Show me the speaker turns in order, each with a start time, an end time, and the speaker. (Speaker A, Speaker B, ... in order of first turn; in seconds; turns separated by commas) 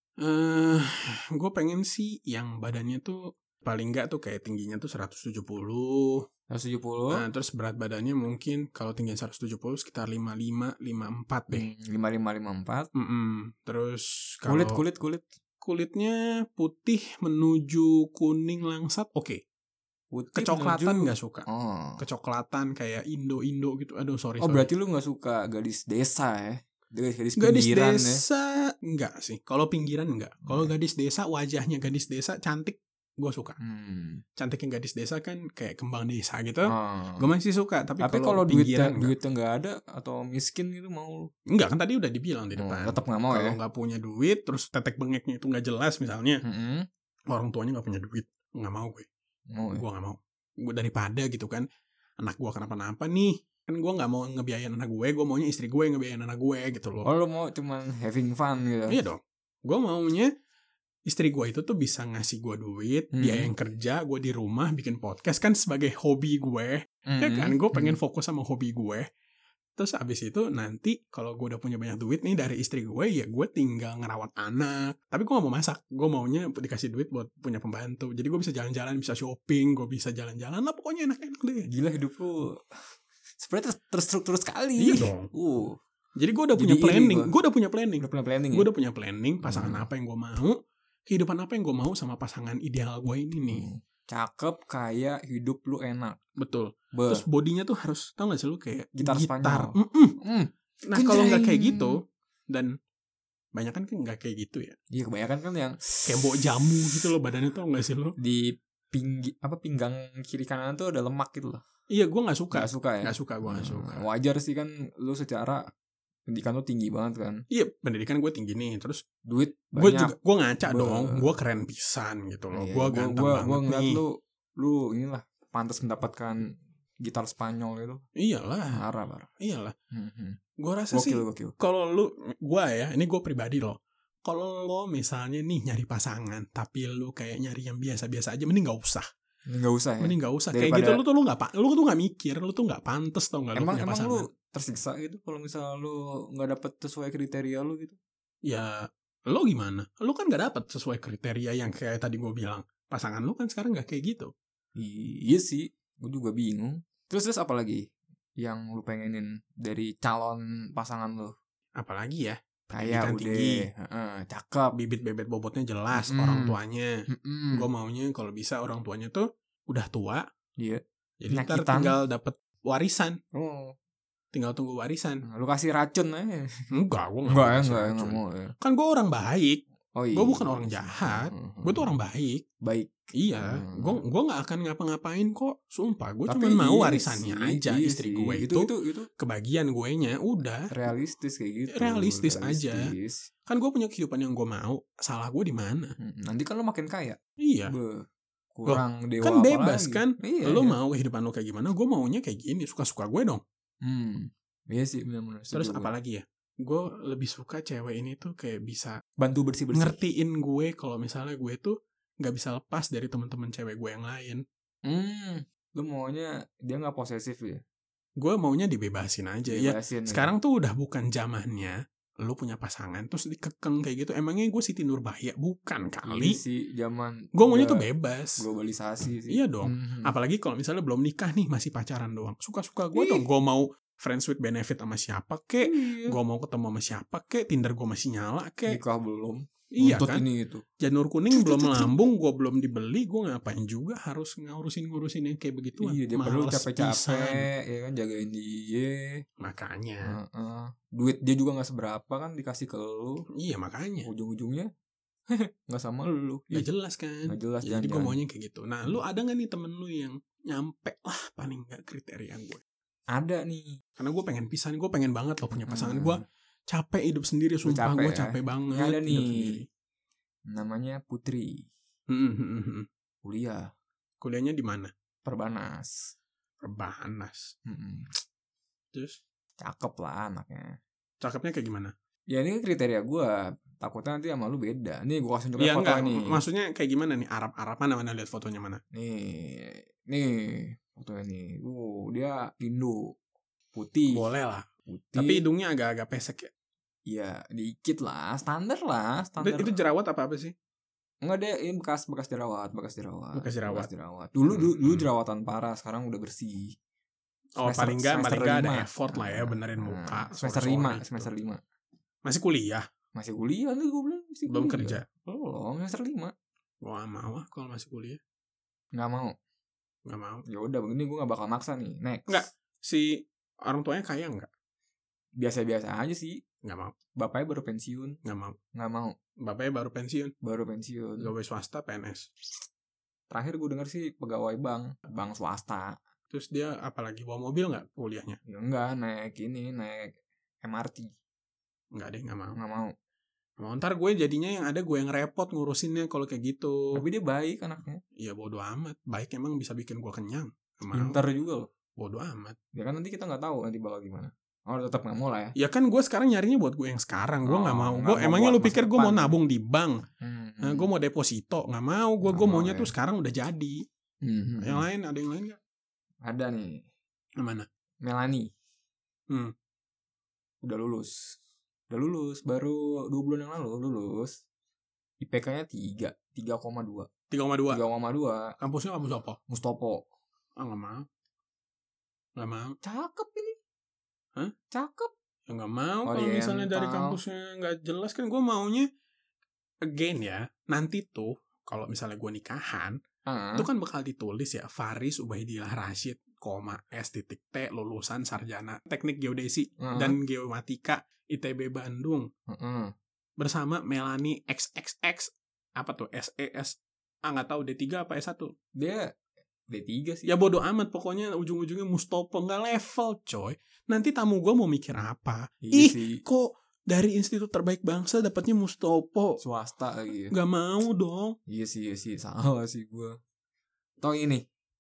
Speaker A: 0.2-6.2, Speaker B: 6.5-7.2, Speaker A: 7.1-11.7, Speaker B: 11.5-12.9, Speaker A: 12.9-14.8, Speaker B: 14.5-15.3, Speaker A: 15.6-19.4, Speaker B: 20.1-22.0, Speaker A: 20.4-21.5, Speaker A: 22.0-24.7, Speaker B: 24.4-28.2, Speaker A: 27.4-33.6, Speaker B: 30.4-30.7, Speaker B: 33.6-34.2, Speaker A: 34.4-39.2, Speaker B: 36.7-37.3, Speaker B: 38.0-41.3, Speaker A: 41.5-46.4, Speaker B: 42.6-43.6, Speaker B: 46.4-46.9, Speaker A: 47.3-49.1, Speaker B: 49.5-49.8, Speaker A: 49.8-51.6, Speaker A: 52.2-57.1, Speaker B: 57.0-59.0, Speaker A: 58.9-60.3, Speaker A: 61.1-69.1, Speaker B: 63.1-63.5, Speaker B: 67.1-68.0, Speaker A: 69.8-81.7, Speaker B: 81.7-82.6, Speaker B: 83.4-85.8, Speaker A: 84.8-85.3, Speaker A: 86.2-93.7, Speaker B: 86.6-87.3, Speaker B: 88.0-88.7, Speaker B: 89.4-89.9, Speaker B: 93.5-96.2, Speaker A: 96.4-100.2, Speaker B: 96.9-97.2, Speaker B: 99.0-102.0, Speaker A: 100.9-102.7, Speaker A: 103.5-104.8, Speaker B: 104.9-106.4, Speaker A: 106.1-108.2, Speaker B: 108.2-111.6, Speaker A: 111.9-114.0, Speaker B: 112.5-115.7, Speaker B: 116.3-117.4, Speaker A: 117.5-119.0, Speaker B: 119.3-121.3, Speaker A: 119.8-124.0, Speaker B: 122.5-126.5, Speaker B: 127.0-128.0, Speaker A: 128.2-128.8, Speaker B: 128.7-129.3, Speaker A: 129.4-129.7, Speaker B: 129.9-130.4, Speaker A: 130.6-139.1, Speaker B: 130.9-131.5, Speaker B: 139.5-141.0, Speaker A: 140.0-144.3, Speaker B: 143.6-148.0, Speaker A: 148.4-154.3, Speaker B: 154.8-157.8, Speaker B: 158.4-161.3, Speaker A: 161.8-163.7, Speaker B: 162.7-164.8, Speaker A: 164.8-166.9, Speaker B: 165.9-166.6, Speaker B: 167.1-167.7, Speaker A: 167.5-170.2, Speaker B: 170.6-172.0, Speaker A: 171.2-173.2, Speaker B: 173.3-173.7, Speaker A: 174.3-175.2, Speaker B: 175.3-176.6, Speaker A: 176.7-179.6, Speaker B: 177.3-178.5, Speaker B: 180.0-181.9, Speaker A: 180.2-182.4, Speaker B: 182.6-184.0, Speaker A: 183.2-190.7, Speaker B: 186.3-189.1, Speaker B: 190.7-193.3, Speaker A: 191.7-192.8, Speaker A: 193.5-195.9, Speaker B: 196.0-200.8, Speaker A: 197.4-197.8, Speaker A: 198.7-203.4, Speaker B: 203.8-205.9, Speaker A: 205.5-209.0, Speaker B: 209.2-210.0, Speaker A: 209.7-214.4, Speaker B: 214.9-217.6, Speaker A: 218.2-226.4, Speaker B: 219.5-220.3, Speaker B: 226.1-227.8, Speaker A: 227.3-228.4, Speaker B: 228.4-230.1, Speaker A: 229.3-238.8, Speaker B: 232.9-233.2, Speaker B: 235.6-236.2, Speaker B: 238.7-240.6, Speaker A: 239.8-240.2, Speaker A: 240.8-247.5, Speaker B: 241.3-242.0, Speaker B: 245.8-249.2, Speaker A: 249.4-250.2, Speaker B: 250.1-253.2, Speaker A: 253.4-254.1, Speaker B: 254.1-254.7, Speaker B: 255.3-256.7, Speaker A: 256.5-262.6, Speaker B: 257.3-258.2, Speaker B: 263.1-263.8, Speaker A: 264.0-269.6, Speaker B: 265.5-266.2, Speaker B: 267.6-269.6, Speaker B: 270.5-271.7, Speaker A: 272.1-272.9, Speaker B: 273.2-273.6, Speaker A: 274.2-274.9, Speaker B: 275.3-276.1, Speaker A: 276.6-277.5, Speaker B: 277.7-278.2, Speaker A: 278.9-279.2, Speaker B: 279.6-280.8, Speaker A: 281.2-281.9, Speaker B: 282.3-286.4, Speaker A: 285.6-288.8, Speaker B: 288.9-293.0, Speaker B: 293.7-294.3, Speaker A: 294.1-294.7, Speaker B: 294.9-295.4, Speaker A: 295.2-296.5, Speaker B: 297.1-299.7, Speaker A: 299.4-300.5, Speaker B: 301.2-306.8, Speaker A: 303.4-303.9, Speaker A: 304.5-305.1, Speaker A: 307.6-311.3, Speaker B: 307.6-311.6, Speaker A: 312.2-312.8, Speaker B: 313.1-316.3, Speaker A: 314.5-315.1, Speaker A: 316.8-318.2, Speaker B: 319.0-319.3, Speaker A: 320.1-320.4, Speaker B: 320.5-322.5, Speaker A: 322.3-324.5, Speaker B: 325.4-326.4, Speaker A: 326.6-326.9, Speaker B: 327.2-328.2, Speaker A: 328.2-328.6, Speaker B: 328.8-329.1, Speaker A: 329.4-330.3, Speaker B: 330.4-331.3, Speaker A: 331.2-332.3, Speaker B: 333.3-335.9, Speaker A: 336.3-338.4, Speaker B: 338.5-341.1, Speaker A: 341.9-342.6, Speaker B: 342.6-342.9, Speaker A: 343.6-346.8, Speaker B: 346.9-348.0, Speaker A: 348.2-351.2, Speaker B: 350.9-351.7, Speaker A: 352.0-352.6, Speaker B: 352.8-355.6, Speaker A: 355.6-360.0, Speaker B: 357.4-359.4, Speaker B: 360.2-360.9, Speaker A: 360.6-363.8, Speaker B: 362.2-362.9, Speaker B: 364.2-364.9, Speaker A: 364.6-365.6, Speaker B: 366.2-366.8, Speaker A: 367.4-367.7, Speaker B: 368.0-368.5, Speaker B: 370.6-371.4, Speaker B: 371.9-374.4, Speaker B: 375.2-377.1, Speaker A: 377.3-377.8, Speaker B: 377.7-378.6, Speaker A: 378.6-379.4, Speaker B: 379.5-380.0, Speaker A: 380.6-381.1, Speaker A: 382.4-382.8, Speaker B: 382.8-383.6, Speaker B: 384.7-385.1, Speaker A: 385.5-388.9, Speaker B: 386.1-387.2, Speaker A: 389.9-393.0, Speaker B: 393.3-393.7, Speaker A: 393.6-402.3, Speaker B: 399.8-400.2, Speaker B: 402.5-402.9, Speaker A: 403.4-408.5, Speaker B: 408.8-409.1, Speaker B: 409.7-410.3, Speaker A: 410.3-419.4, Speaker B: 415.6-416.2, Speaker B: 419.4-420.4, Speaker A: 420.3-421.4, Speaker B: 421.5-423.2, Speaker B: 424.0-424.4